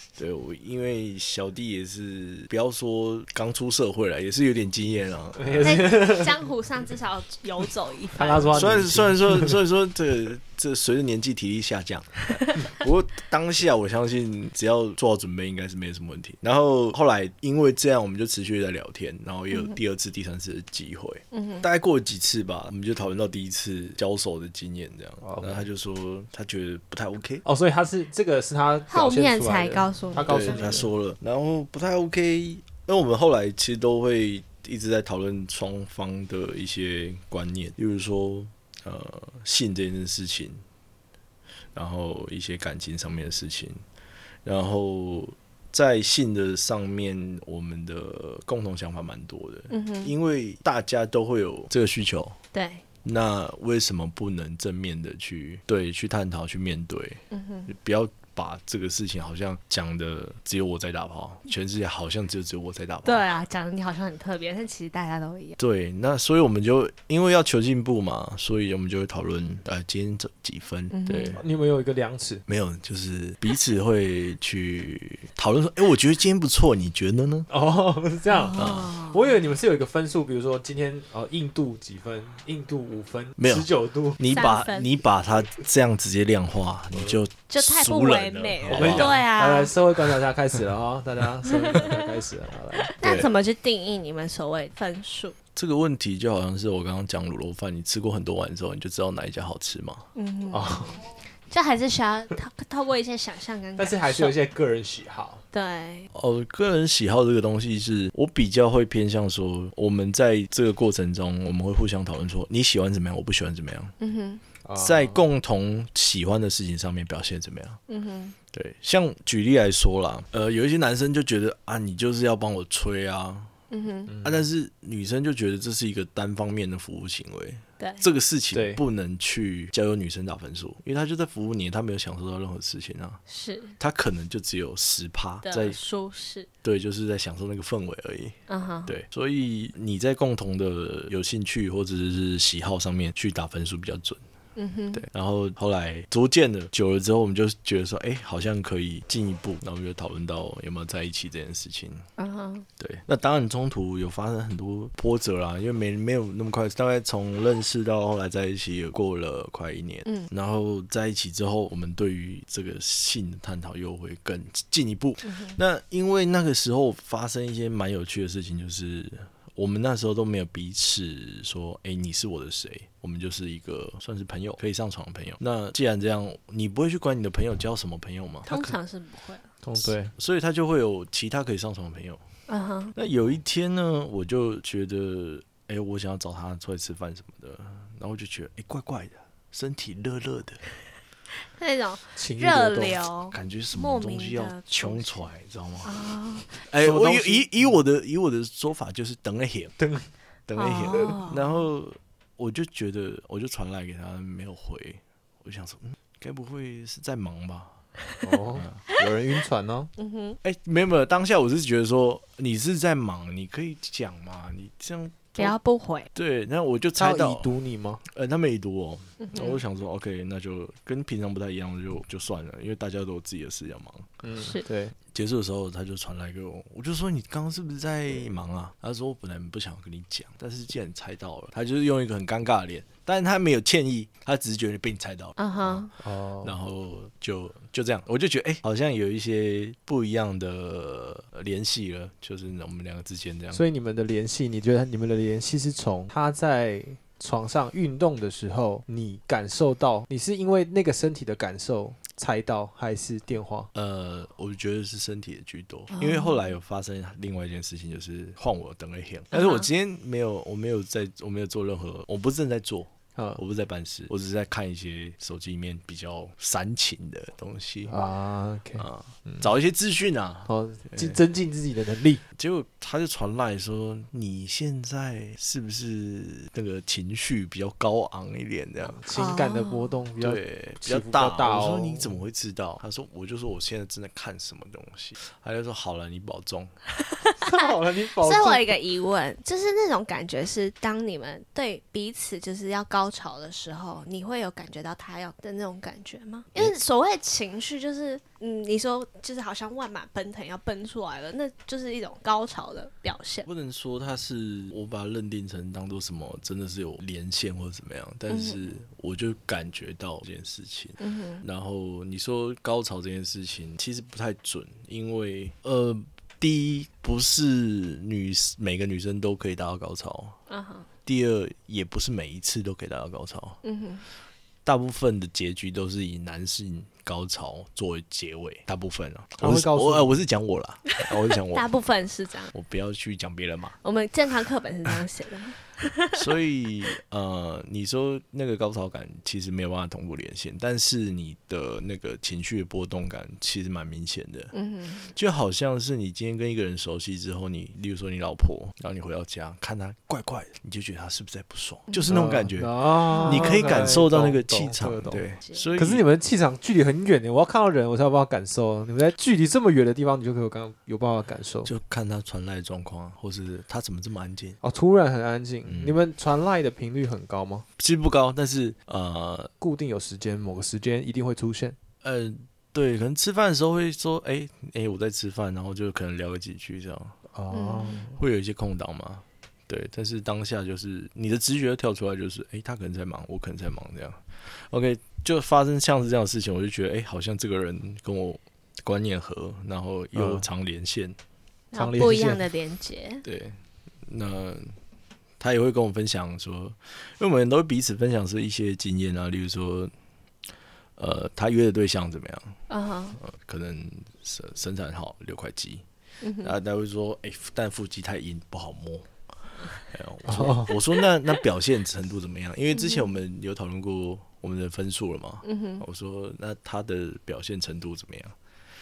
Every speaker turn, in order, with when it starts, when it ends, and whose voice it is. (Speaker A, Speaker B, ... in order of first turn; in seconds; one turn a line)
Speaker A: 0.2-6.0
Speaker B: 5.4-6.3
Speaker C: 5.6-8.8
Speaker B: 8.2-9.6
Speaker A: 8.5-27.4
Speaker C: 12.4-12.7
Speaker C: 21.3-21.6
Speaker B: 25.2-25.6
Speaker B: 27.4-30.9
Speaker C: 28.9-30.8
Speaker A: 30.2-40.6
Speaker A: 41.7-43.8
Speaker A: 44.4-52.4
Speaker C: 49.7-50.1
Speaker C: 52.5-52.8
Speaker A: 53.0-63.2
Speaker C: 57.3-57.7
Speaker C: 63.0-65.6
Speaker A: 65.6-71.4
Speaker C: 70.9-71.4
Speaker B: 71.3-72.4
Speaker A: 72.5-77.5
Speaker B: 77.5-84.2
Speaker C: 78.3-79.3
Speaker A: 78.6-78.9
Speaker A: 83.4-89.2
Speaker C: 84.3-84.9
Speaker B: 86.9-87.2
Speaker C: 87.5-89.7
Speaker B: 88.7-93.0
Speaker C: 91.5-92.0
Speaker C: 92.8-95.3
Speaker A: 93.0-93.3
Speaker A: 95.5-100.0
Speaker C: 100.1-104.3
Speaker B: 100.5-101.0
Speaker B: 103.8-105.4
Speaker C: 105.5-106.1
Speaker A: 106.1-113.9
Speaker C: 114.0-114.4
Speaker B: 114.6-115.2
Speaker A: 114.8-117.8
Speaker C: 117.9-118.3
Speaker A: 118.5-123.5
Speaker C: 123.7-124.1
Speaker B: 124.1-124.5
Speaker A: 124.2-133.2
Speaker C: 127.8-128.0
Speaker B: 128.5-128.8
Speaker C: 133.3-133.8
Speaker A: 133.8-135.8
Speaker C: 135.4-136.5
Speaker A: 136.6-138.3
Speaker C: 138.5-138.9
Speaker A: 138.9-144.2
Speaker C: 144.6-145.0
Speaker A: 144.9-152.1
Speaker C: 152.2-152.7
Speaker A: 152.8-178.7
Speaker C: 165.2-165.6
Speaker C: 178.5-179.5
Speaker B: 179.6-180.1
Speaker A: 179.8-182.2
Speaker C: 182.5-182.9
Speaker A: 182.9-190.6
Speaker C: 191.6-195.3
Speaker B: 192.2-193.0
Speaker A: 193.3-195.9
Speaker C: 195.8-196.6
Speaker A: 196.7-199.8
Speaker B: 196.8-197.8
Speaker B: 199.8-200.1
Speaker A: 200.5-207.8
Speaker C: 200.6-201.5
Speaker B: 208.2-209.9
Speaker A: 208.5-208.8
Speaker C: 210.0-210.4
Speaker A: 210.4-215.6
Speaker C: 215.4-216.1
Speaker A: 216.1-217.5
Speaker B: 217.0-218.0
Speaker A: 218.0-224.1
Speaker C: 219.2-219.6
Speaker B: 224.2-224.9
Speaker C: 224.4-224.7
Speaker A: 225.1-235.9
Speaker C: 235.4-235.9
Speaker B: 236.0-236.5
Speaker A: 236.4-243.6
Speaker B: 243.5-253.7
Speaker A: 253.7-267.9
Speaker C: 255.9-256.4
Speaker C: 259.3-259.7
Speaker B: 263.1-263.4
Speaker B: 267.9-269.5
Speaker A: 268.8-271.2
Speaker B: 270.5-272.2
Speaker A: 272.3-279.0
Speaker B: 278.9-282.2
Speaker C: 279.1-280.0
Speaker A: 280.2-286.7
Speaker C: 287.0-303.5
Speaker B: 287.4-288.8
Speaker A: 303.4-320.4
Speaker C: 308.3-308.6
Speaker C: 311.0-311.4
Speaker C: 320.5-320.9
Speaker A: 321.0-323.6
Speaker C: 323.6-324.0
Speaker A: 324.6-331.7
Speaker B: 329.4-330.2
Speaker C: 330.9-332.5
Speaker A: 332.5-333.8
Speaker C: 333.8-336.2
Speaker A: 336.1-344.5
Speaker C: 344.5-345.1
Speaker A: 345.1-356.0
Speaker B: 352.1-355.2
Speaker C: 353.1-353.9
Speaker B: 355.8-361.7
Speaker A: 361.6-364.6
Speaker B: 364.6-367.6
Speaker A: 365.6-366.0
Speaker A: 367.8-369.5
Speaker B: 369.6-371.8
Speaker A: 372.0-377.1
Speaker B: 377.3-378.2
Speaker C: 377.5-378.0
Speaker A: 378.1-391.2
Speaker B: 390.1-390.5
Speaker C: 391.7-393.2
Speaker B: 391.7-392.4
Speaker A: 393.2-394.7
Speaker A: 395.4-399.9
Speaker A: 401.0-402.6
Speaker C: 402.7-403.2
Speaker A: 403.2-405.8
Speaker C: 406.2-406.5
Speaker A: 406.4-409.1
Speaker A: 409.8-418.4
Speaker B: 410.2-410.7
Speaker C: 412.7-413.1
Speaker C: 415.4-415.8